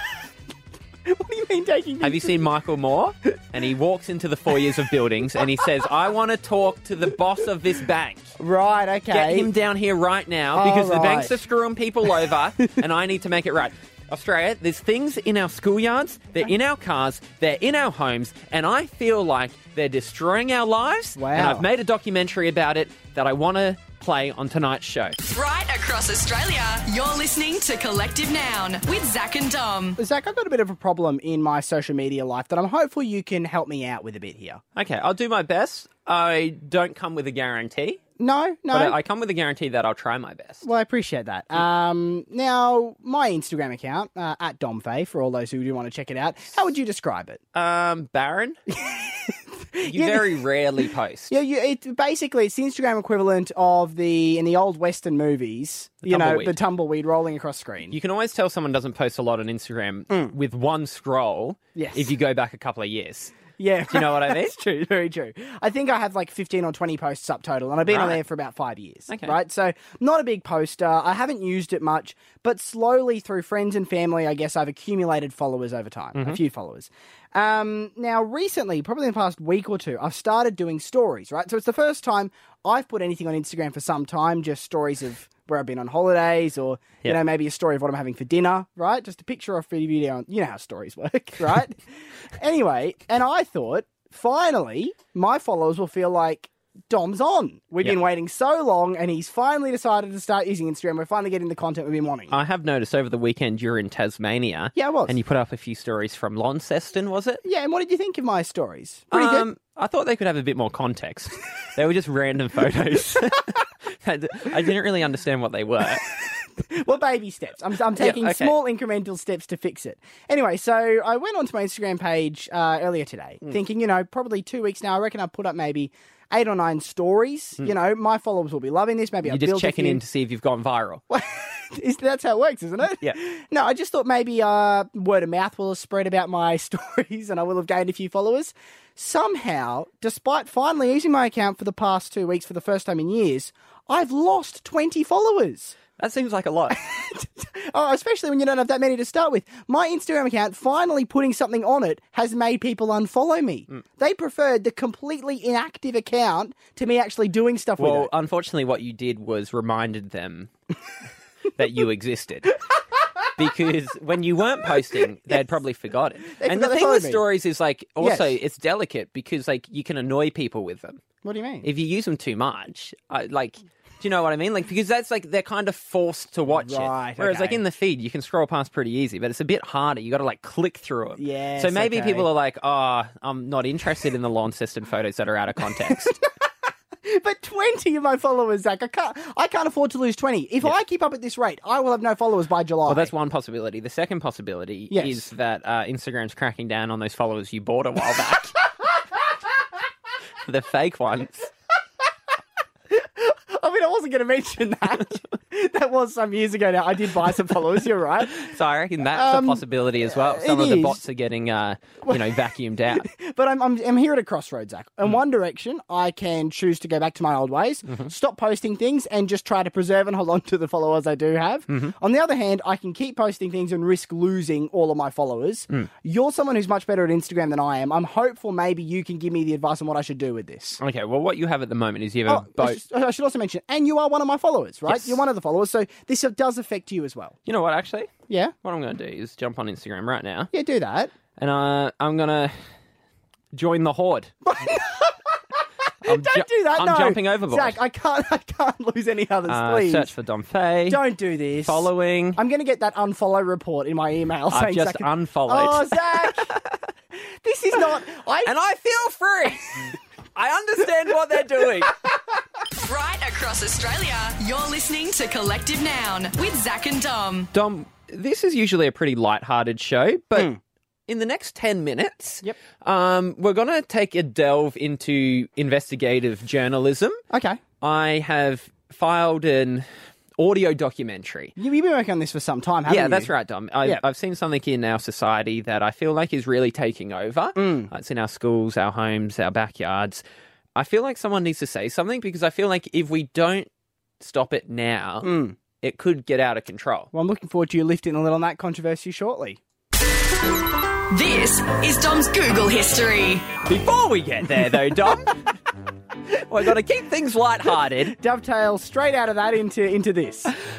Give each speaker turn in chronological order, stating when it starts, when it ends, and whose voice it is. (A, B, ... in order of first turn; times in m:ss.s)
0:01.1-0:02.4 A
0:02.0-0:08.3 B
0:08.4-0:09.5 A
0:09.1-0:25.2 B
0:10.6-0:11.3 A
0:21.2-0:21.7 A
0:25.2-0:30.0 C
0:30.0-0:34.6 A
0:34.8-0:38.0 B
0:38.2-0:39.0 A
0:38.7-0:40.6 B
0:40.6-0:47.4 A
0:47.6-0:48.6 B
0:48.7-0:50.4 A
0:49.8-0:51.3 B
0:51.3-0:58.0 A
0:56.0-0:56.6 B
0:57.9-1:03.4 B
1:01.8-1:02.1 A
1:03.6-1:31.8 A
1:03.9-1:04.5 B
1:07.9-1:08.2 B
1:09.1-1:09.4 B
1:16.1-1:16.4 B
1:32.4-1:42.3 A
1:42.3-1:47.4 B
1:44.7-1:45.2 A
1:47.4-1:49.5 A
1:49.1-1:56.1 B
1:56.6-2:10.0 A
1:58.0-1:58.5 B
2:09.2-2:11.0 B
2:11.1-2:25.8 A
2:26.0-2:26.8 B
2:26.7-2:38.1 A
2:37.8-2:40.5 B
2:41.6-2:42.6 B
2:43.4-2:51.0 B
2:46.4-2:47.2 A
2:48.0-2:48.3 A
2:51.2-2:51.7 A
2:51.6-3:06.1 B
2:56.5-2:57.6 A
3:01.2-3:02.3 A
3:05.9-3:06.2 A
3:07.0-3:13.1 A
3:12.9-3:18.6 B
3:14.9-3:15.2 A
3:20.4-3:21.5 B
3:22.9-3:28.5 A
3:28.3-3:33.1 B
3:29.1-3:31.0 A
3:32.9-3:50.8 A
3:41.7-3:42.0 B
3:50.8-3:52.8 B
3:52.3-3:57.4 A
3:54.9-3:55.2 B
3:57.5-3:58.1 B
3:58.3-3:58.6 A
3:58.6-4:00.5 B
4:00.5-4:01.1 A
4:01.4-4:02.6 B
4:03.5-4:04.3 B
4:04.4-4:05.4 A
4:06.0-4:07.8 B
4:06.0-4:10.1 A
4:09.5-4:11.0 B
4:10.9-4:16.6 A
4:11.6-4:12.4 B
4:14.5-4:16.6 B
4:17.3-4:18.5 A
4:18.4-4:22.0 B
4:22.8-4:27.5 C
4:27.5-4:30.5 B
4:31.1-4:37.2 B
4:37.3-4:37.6 A
4:37.8-4:39.8 B
4:40.4-4:41.5 B
4:41.6-4:43.3 A
4:42.9-4:50.2 B
4:47.6-4:47.9 A
4:50.8-4:57.1 B
4:55.2-4:55.6 A
4:57.1-4:59.6 A
5:01.1-5:03.5 C
5:03.6-5:05.4 B
5:06.4-5:08.2 B
5:08.0-5:10.5 A